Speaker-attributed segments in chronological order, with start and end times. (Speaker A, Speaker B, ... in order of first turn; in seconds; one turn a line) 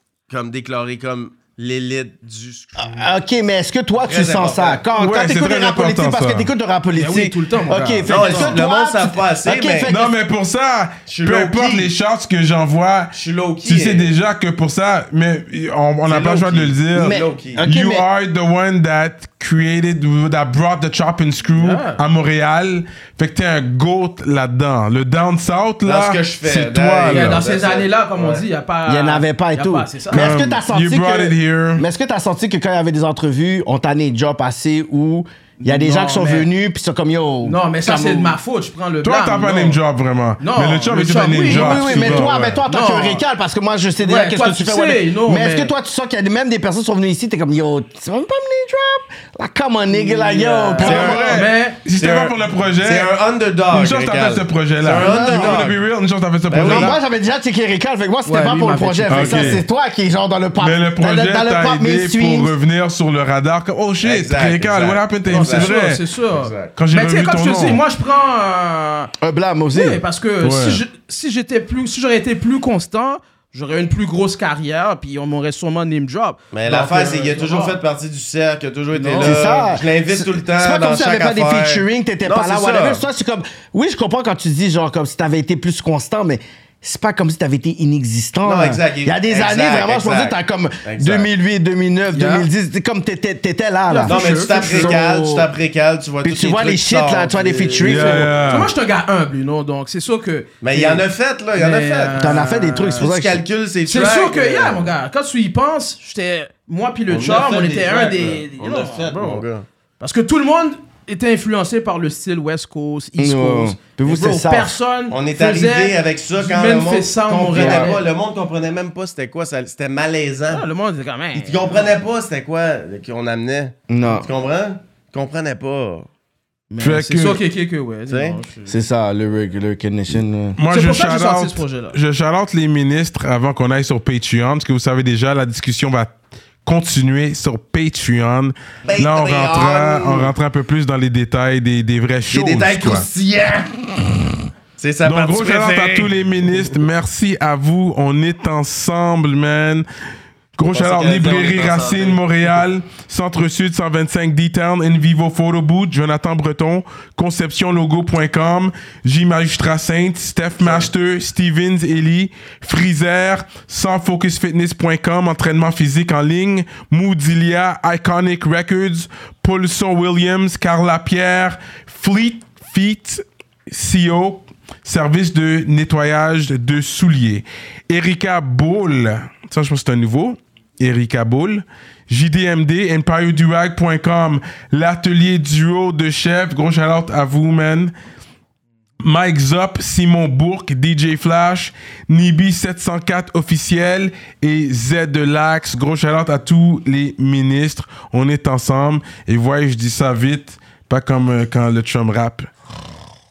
Speaker A: 0.3-3.0
Speaker B: 2.8-10.1
Speaker A: 4.0-4.8
Speaker C: 5.0-6.5
Speaker D: 6.9-8.6
Speaker A: 8.1-9.9
Speaker C: 9.8-13.1
Speaker A: 11.1-11.9
Speaker A: 13.1-14.1
Speaker C: 13.6-27.4
Speaker A: 16.1-17.6
Speaker B: 16.9-18.1
Speaker D: 21.6-22.0
Speaker A: 25.8-28.4
Speaker D: 27.1-30.3
Speaker B: 28.9-38.4
Speaker C: 30.1-31.8
Speaker D: 35.6-36.5
Speaker D: 37.4-39.8
Speaker C: 39.0-42.6
Speaker D: 40.4-43.2
Speaker B: 41.4-51.5
Speaker D: 44.0-45.7
Speaker D: 49.9-51.8
Speaker A: 50.8-51.1
Speaker C: 50.8-53.1
Speaker A: 51.9-55.8
Speaker C: 53.7-57.0
Speaker B: 54.8-55.7
Speaker A: 56.5-57.0
Speaker B: 56.5-62.5
Speaker D: 58.2-59.6
Speaker C: 59.1-59.6
Speaker C: 60.6-66.0
Speaker A: 64.0-65.7
Speaker D: 65.3-69.1
Speaker A: 66.3-66.7
Speaker C: 66.8-67.8
Speaker B: 69.2-70.0
Speaker D: 69.7-77.8
Speaker C: 70.4-70.8
Speaker A: 76.5-83.0
Speaker D: 78.9-79.7
Speaker B: 79.2-95.5
Speaker A: 88.4-91.3
Speaker D: 92.1-92.5
Speaker D: 93.9-95.0
Speaker A: 94.0-98.3
Speaker B: 96.2-98.3
Speaker C: 97.8-98.7
Speaker D: 97.9-103.1
Speaker A: 100.6-102.2
Speaker B: 102.2-103.4
Speaker A: 103.0-104.9
Speaker D: 103.9-109.4
Speaker A: 107.1-109.7
Speaker D: 110.0-118.0
Speaker B: 113.2-114.7
Speaker A: 115.1-120.6
Speaker B: 117.3-117.9
Speaker D: 120.5-122.0
Speaker A: 121.3-126.1
Speaker B: 123.9-124.3
Speaker D: 126.7-128.7
Speaker C: 126.8-127.4
Speaker A: 128.1-128.4
Speaker B: 128.7-130.6
Speaker C: 130.6-143.1
Speaker D: 130.7-132.0
Speaker A: 138.8-140.3
Speaker A: 142.3-143.7
Speaker A: 144.8-146.7
Speaker C: 145.0-149.8
Speaker C: 150.6-187.9
Speaker A: 150.7-152.6
Speaker A: 160.6-160.9
Speaker C: 189.0-202.5